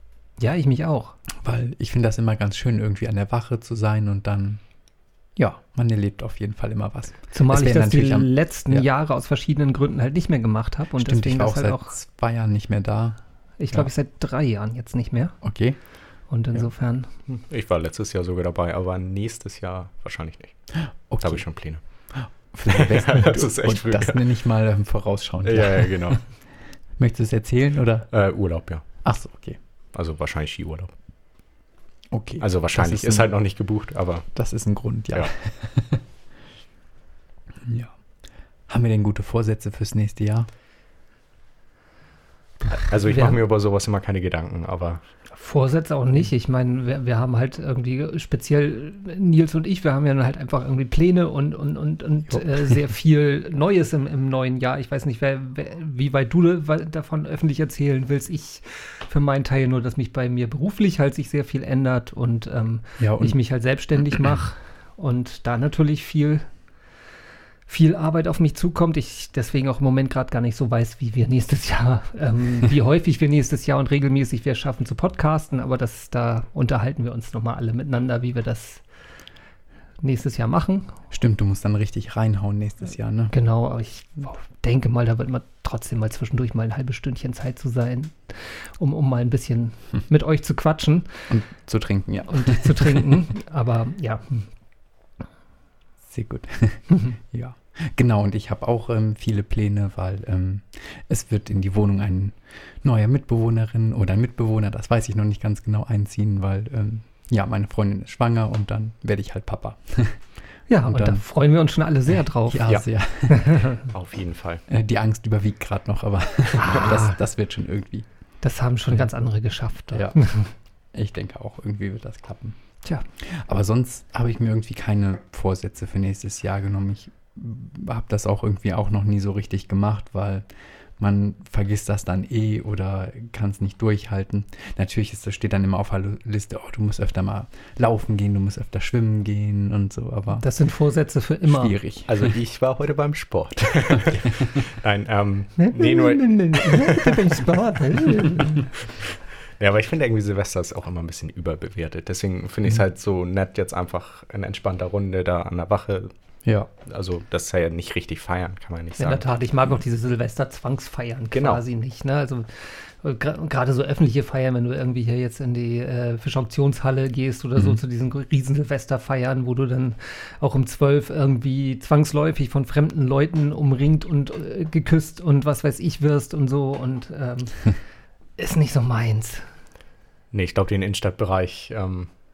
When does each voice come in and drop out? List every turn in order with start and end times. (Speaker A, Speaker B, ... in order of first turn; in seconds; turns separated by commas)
Speaker A: 0.4-1.2, Speaker B: 1.4-4.6, Speaker B: 5.4-8.3, Speaker A: 7.3-11.9, Speaker B: 11.0-13.2, Speaker A: 13.6-15.3, Speaker B: 15.4-15.8, Speaker A: 16.3-17.1, Speaker C: 17.3-20.6, Speaker B: 21.1-21.4, Speaker C: 21.2-21.8, Speaker B: 22.1-26.2, Speaker C: 22.7-24.2, Speaker C: 25.4-26.2, Speaker B: 27.0-28.1, Speaker C: 28.1-28.9, Speaker B: 29.0-29.6, Speaker C: 29.9-30.9, Speaker B: 32.1-33.3, Speaker C: 32.4-34.3, Speaker B: 34.4-36.0, Speaker B: 37.6-37.9, Speaker B: 38.7-40.5, Speaker C: 42.7-45.0, Speaker A: 43.1-43.4, Speaker A: 45.3-66.5, Speaker B: 52.3-52.6, Speaker B: 63.0-63.4, Speaker A: 67.7-78.8, Speaker A: 80.0-81.0, Speaker B: 81.1-83.3, Speaker A: 83.3-91.1, Speaker B: 91.3-93.0, Speaker A: 92.3-94.5, Speaker B: 96.1-110.2, Speaker A: 110.7-112.7, Speaker B: 110.9-111.2, Speaker B: 112.5-113.8, Speaker A: 113.3-113.8, Speaker C: 113.9-114.6, Speaker B: 114.7-118.1, Speaker A: 116.5-117.2, Speaker A: 118.4-120.5, Speaker B: 119.9-120.2, Speaker B: 120.9-122.6, Speaker B: 123.2-130.5, Speaker B: 131.0-140.5, Speaker A: 140.4-141.7, Speaker B: 141.4-142.3, Speaker C: 142.1-156.1, Speaker A: 145.6-148.7, Speaker C: 156.9-159.2, Speaker A: 159.0-177.7, Speaker C: 161.3-161.6, Speaker A: 178.4-179.5, Speaker C: 180.3-182.1